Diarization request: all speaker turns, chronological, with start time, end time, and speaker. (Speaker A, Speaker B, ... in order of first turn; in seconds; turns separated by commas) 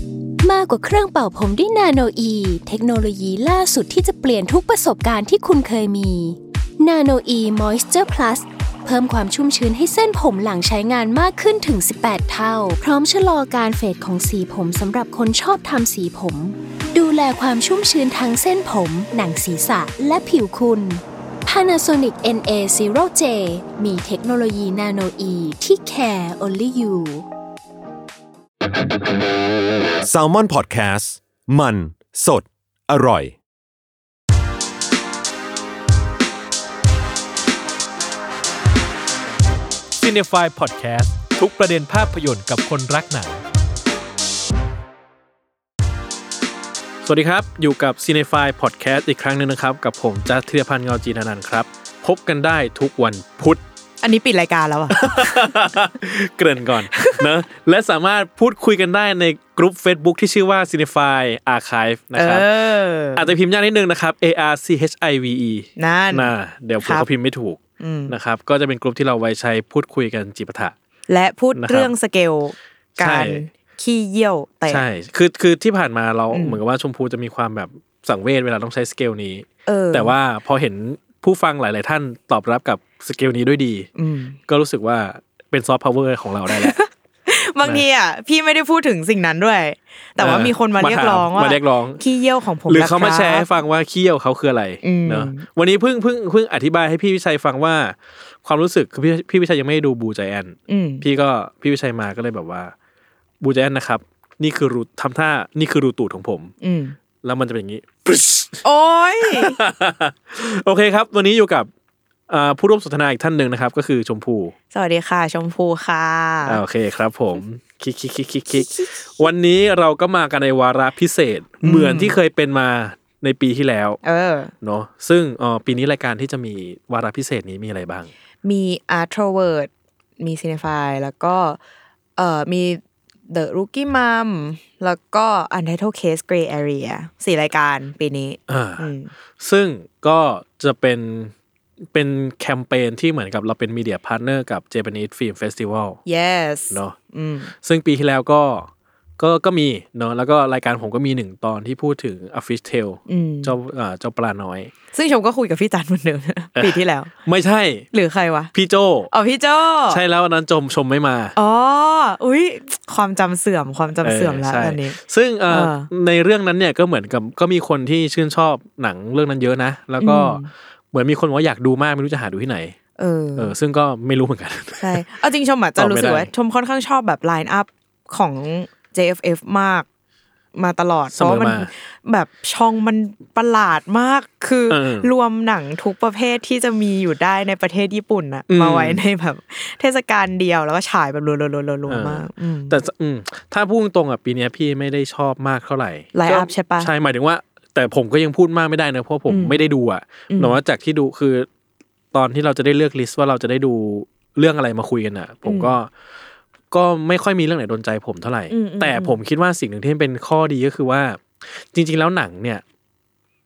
Speaker A: 0.4-27.2, Speaker B: 30.0-33.4, Speaker C: 40.0-43.4, Speaker C: 47.0-53.6, Speaker D: 54.0-55.7, Speaker C: 54.9-62.5, Speaker D: 56.9-57.3, Speaker D: 62.1-63.3, Speaker C: 63.1-70.7, Speaker D: 65.8-67.1, Speaker D: 67.8-68.1, Speaker D: 71.1-74.8, Speaker C: 71.5-71.9, Speaker C: 73.0-73.4, Speaker C: 74.7-83.9, Speaker D: 76.3-76.6, Speaker D: 79.7-80.1, Speaker D: 84.0-84.4, Speaker C: 84.5-86.8, Speaker D: 86.5-93.5, Speaker C: 90.2-92.0, Speaker C: 92.7-102.7, Speaker D: 94.8-95.4, Speaker D: 100.7-101.0, Speaker C: 103.4-106.5, Speaker D: 106.6-107.0, Speaker C: 107.2-108.6, Speaker D: 108.6-109.6, Speaker C: 109.2-111.7, Speaker C: 112.3-114.5, Speaker D: 114.7-116.6, Speaker C: 116.4-124.0, Speaker D: 118.5-119.3, Speaker D: 121.6-122.2, Speaker D: 124.0-124.5, Speaker C: 124.6-128.1, Speaker D: 128.4-131.6, Speaker D: 132.2-139.1, Speaker C: 138.5-141.3, Speaker C: 141.9-146.0, Speaker D: 146.1-147.5, Speaker C: 146.7-147.0, Speaker C: 147.5-154.7, Speaker D: 153.1-153.5, Speaker D: 154.9-157.1, Speaker C: 156.5-157.9, Speaker D: 157.9-158.5, Speaker C: 158.5-159.1, Speaker D: 159.1-160.0, Speaker C: 159.9-161.3, Speaker D: 161.3-165.0, Speaker C: 164.0-172.8, Speaker D: 165.5-165.9, Speaker D: 170.0-170.5, Speaker D: 173.0-173.5, Speaker C: 173.3-175.1, Speaker D: 174.8-179.8, Speaker C: 175.8-176.3, Speaker D: 180.5-192.8, Speaker C: 181.1-181.7, Speaker C: 184.7-185.1, Speaker C: 188.5-189.0, Speaker C: 191.9-201.5, Speaker D: 196.1-196.9, Speaker D: 199.3-199.6, Speaker D: 200.3-200.6, Speaker C: 202.1-205.9, Speaker D: 205.4-205.7, Speaker C: 206.7-212.6, Speaker D: 208.5-209.2